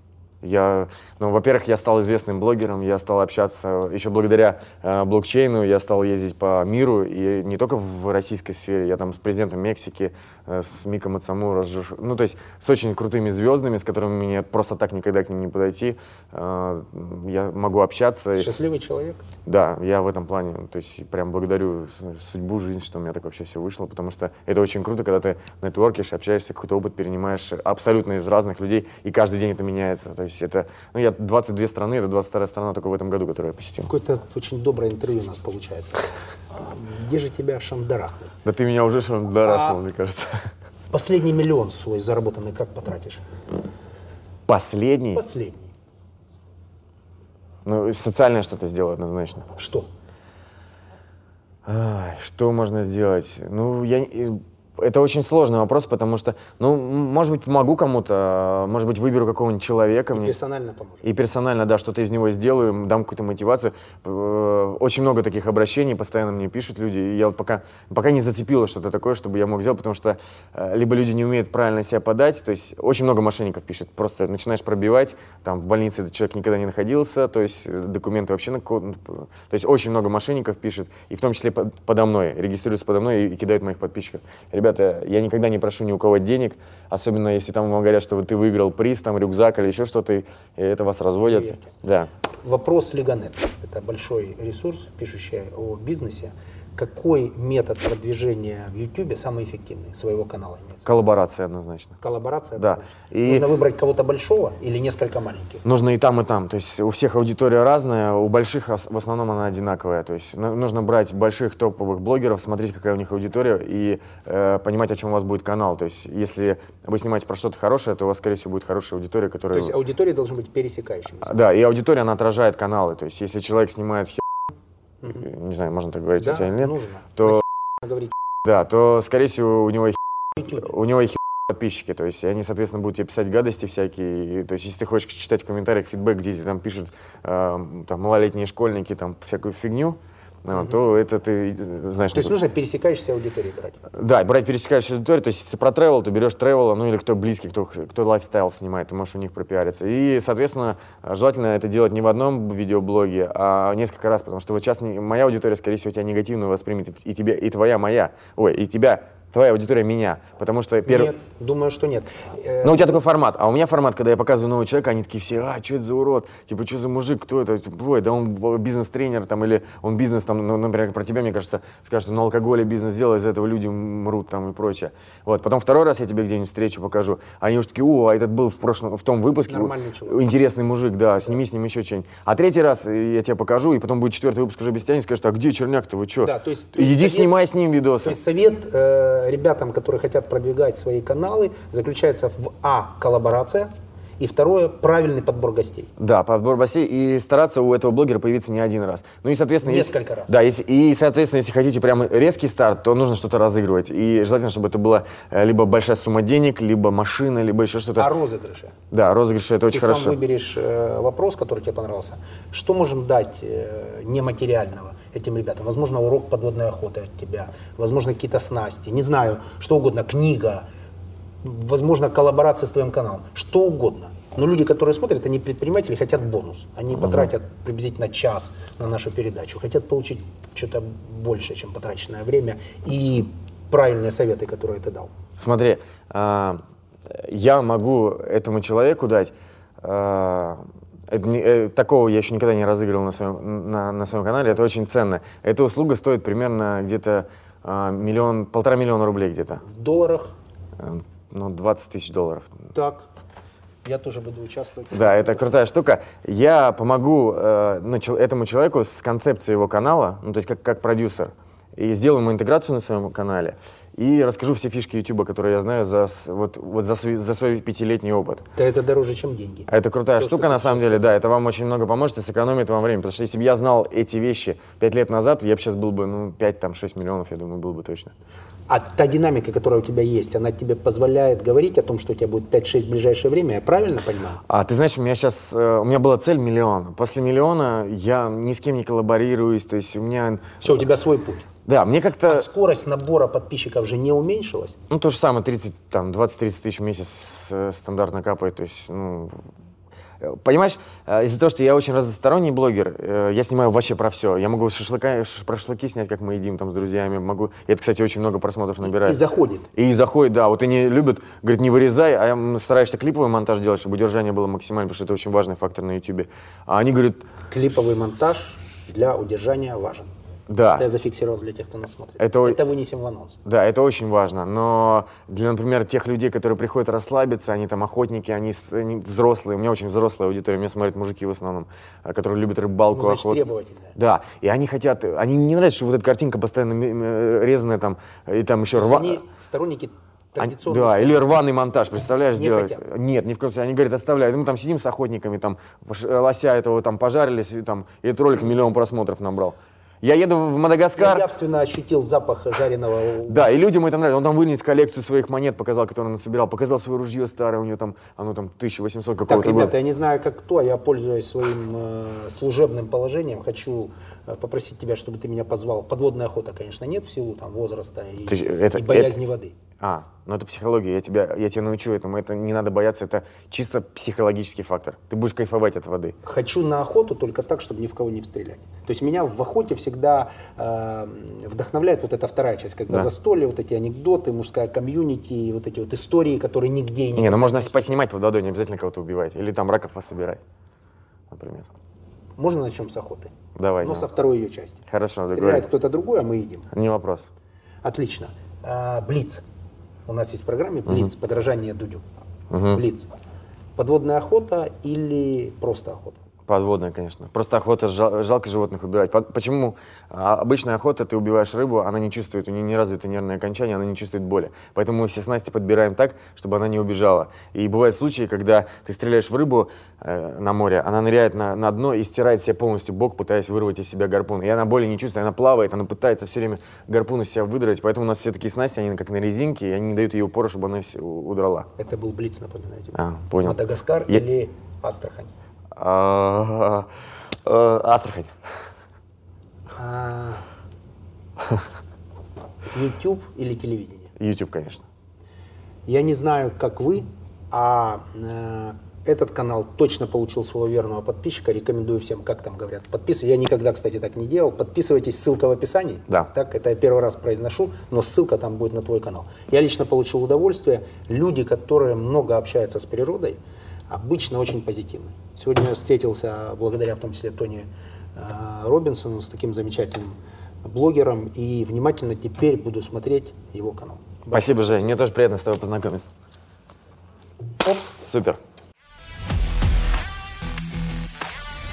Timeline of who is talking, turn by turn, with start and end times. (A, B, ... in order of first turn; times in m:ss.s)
0:00.4-0:18.5 A
0:18.4-0:19.2 B
0:19.4-0:33.9 A
0:33.9-0:38.3 B
0:38.4-0:40.5 A
0:39.4-0:39.8 B
0:40.9-0:43.2 B
0:44.5-0:45.2 A
0:45.1-0:45.7 B
0:47.6-0:49.5 A
0:49.6-0:49.9 B
0:51.6-1:00.3 A
1:00.1-1:01.0 B
1:01.0-1:32.1 A
1:31.2-1:31.7 B
1:32.3-1:40.9 B
1:40.8-1:42.0 A
1:42.0-1:45.6 B
1:42.6-1:43.5 A
1:45.6-1:59.8 A
1:59.5-2:01.3 B
2:01.2-2:04.2 A
2:05.0-2:07.4 A
2:06.2-2:08.1 B
2:08.4-2:22.3 A
2:10.4-2:10.7 B
2:20.5-2:20.8 B
2:22.1-2:23.8 B
2:23.9-2:41.1 A
2:40.8-2:42.9 B
2:42.6-3:08.2 A
2:59.5-3:00.3 B
3:06.2-3:07.3 B
3:08.0-3:15.9 B
3:16.0-3:28.1 A
3:19.6-3:20.3 B
3:28.0-3:28.7 B
3:28.9-3:30.2 A
3:29.7-3:40.7 B
3:41.4-3:55.1 B
3:55.4-4:09.6 A
4:09.6-4:10.3 B
4:10.8-4:12.6 A
4:12.7-4:13.1 B
4:13.8-4:15.6 B
4:14.9-4:28.4 A
4:28.6-4:31.1 B
4:29.7-4:38.1 A
4:38.7-4:44.4 B
4:44.5-4:50.8 A
4:50.6-4:51.5 B
4:51.6-4:52.5 A
4:52.3-4:54.8 B
4:54.9-4:59.4 A
5:00.2-5:09.2 A
5:08.8-5:09.7 B
5:09.7-5:17.3 A
5:17.5-5:20.1 B
5:20.5-5:20.8 A
5:20.7-5:23.4 B
5:22.2-5:22.6 A
5:23.4-5:33.4 A
5:32.9-5:34.0 B
5:33.9-5:39.2 A
5:38.7-5:41.4 B
5:40.4-5:51.2 A
5:42.3-5:42.8 B
5:51.0-5:53.5 B
5:53.3-5:59.7 A
5:59.3-6:09.5 B
6:08.3-6:09.1 A
6:09.8-6:16.2 A
6:16.2-6:28.0 B
6:27.2-6:30.4 A
6:31.3-6:31.7 A
6:32.4-6:36.7 B
6:33.6-6:34.1 A
6:34.9-6:35.7 A
6:36.7-6:37.3 A
6:37.8-6:39.4 B
6:40.0-6:42.0 B
6:42.5-6:42.8 A
6:42.7-6:43.1 B
6:43.8-6:46.2 B
6:46.5-7:11.7 A
7:11.8-7:15.3 B
7:12.9-7:14.2 A
7:15.8-7:16.9 A
7:17.4-7:18.4 A
7:19.8-7:20.4 B
7:22.7-7:24.1 B
7:24.2-7:24.8 A
7:25.9-7:43.4 B
7:43.9-7:54.9 B
7:54.3-7:56.1 A
7:57.6-7:58.4 A